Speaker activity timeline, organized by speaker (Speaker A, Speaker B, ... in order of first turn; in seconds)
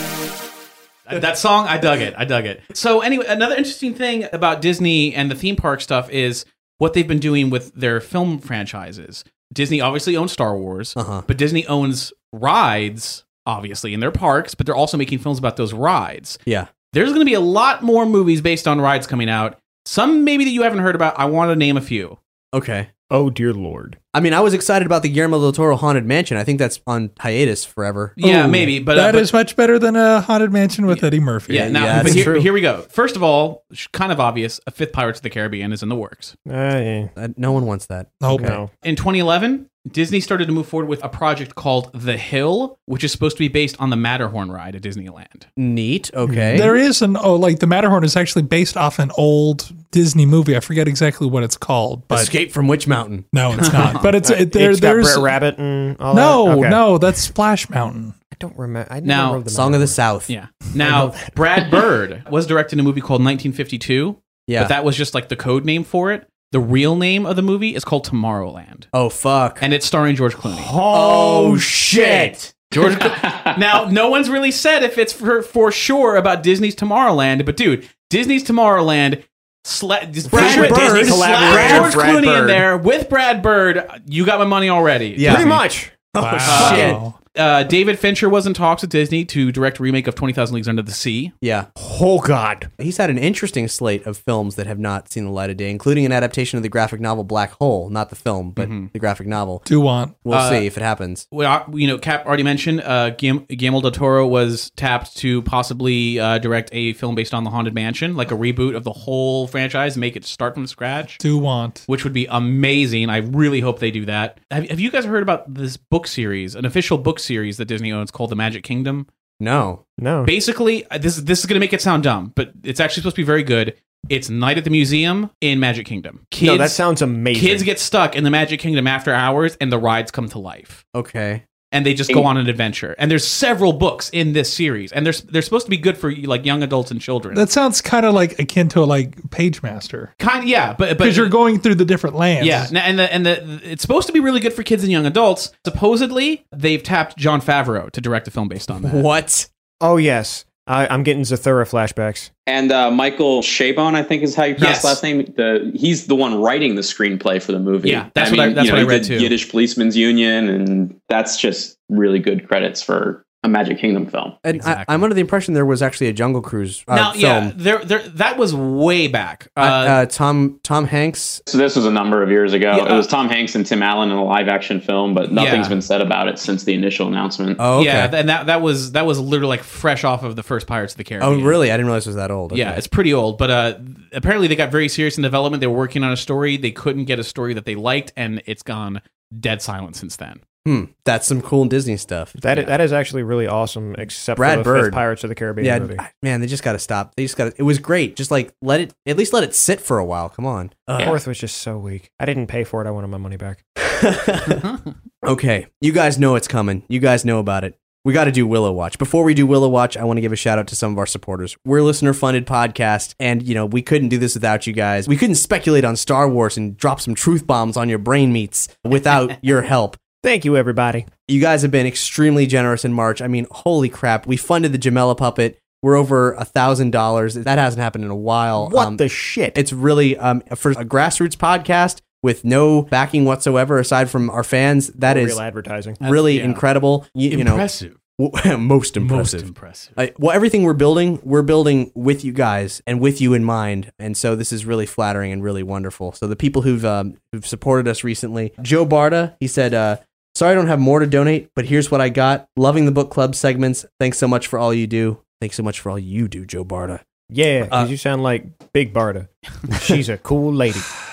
Speaker A: 1.1-16.4, 16.9-22.2, 28.2-29.3, 30.9-36.4, 38.8-45.5, 53.6-54.1, 59.0-59.4, 60.3-68.9, 69.6-70.7, 72.7-85.6, 86.5-91.3, 98.6-98.9, 100.3-100.7, 101.3-111.2, 111.9-119.1, 120.2-130.8, 131.7-137.4, 140.2-141.4, 142.4-149.1, 154.6-155.0, 157.8-159.3, 164.5-165.1, 166.9-170.0, 172.7-173.1, 175.3-175.8, 177.8-181.6, 182.5-190.4, 236.0-238.0, 239.0-240.0
Speaker B: 11.0-11.3, 16.5-16.7, 22.5-22.9, 24.1-28.2, 31.5-32.5, 37.2-38.6, 45.6-46.7, 52.1-53.3, 59.5-60.3, 64.5-64.8, 68.9-69.6, 70.9-72.5, 80.3-82.7, 85.2-87.0, 91.4-91.7, 92.8-99.7, 100.2-101.3, 119.4-119.8, 130.9-131.4, 148.8-149.5, 164.4-167.5, 169.6-171.4, 177.6-178.1, 181.2-182.8, 190.7-192.3, 194.4-195.0, 195.6-201.2, 203.9-204.6, 205.2-220.0, 221.3-229.0, 229.5-235.4, 236.0-257.1, 257.7-257.9
Speaker C: 23.1-24.0, 36.5-37.1, 38.3-38.7, 46.3-46.7, 54.2-56.9, 58.3-60.0, 60.8-61.6, 70.6-72.3, 80.3-82.1, 85.2-86.0, 91.8-92.7, 120.0-120.3, 126.4-127.7, 149.8-152.3, 192.4-196.0, 201.0-203.6, 220.2-221.1, 228.6-229.6, 235.1-236.0, 257.3-261.0
Speaker D: 28.2-32.3, 38.2-38.6, 46.5-52.3, 53.3-55.4, 56.1-58.2, 86.2-87.2, 99.7-100.2, 111.2-111.8, 137.3-140.1, 141.0-142.7
Speaker E: 73.2-73.5, 152.5-164.4, 171.5-177.6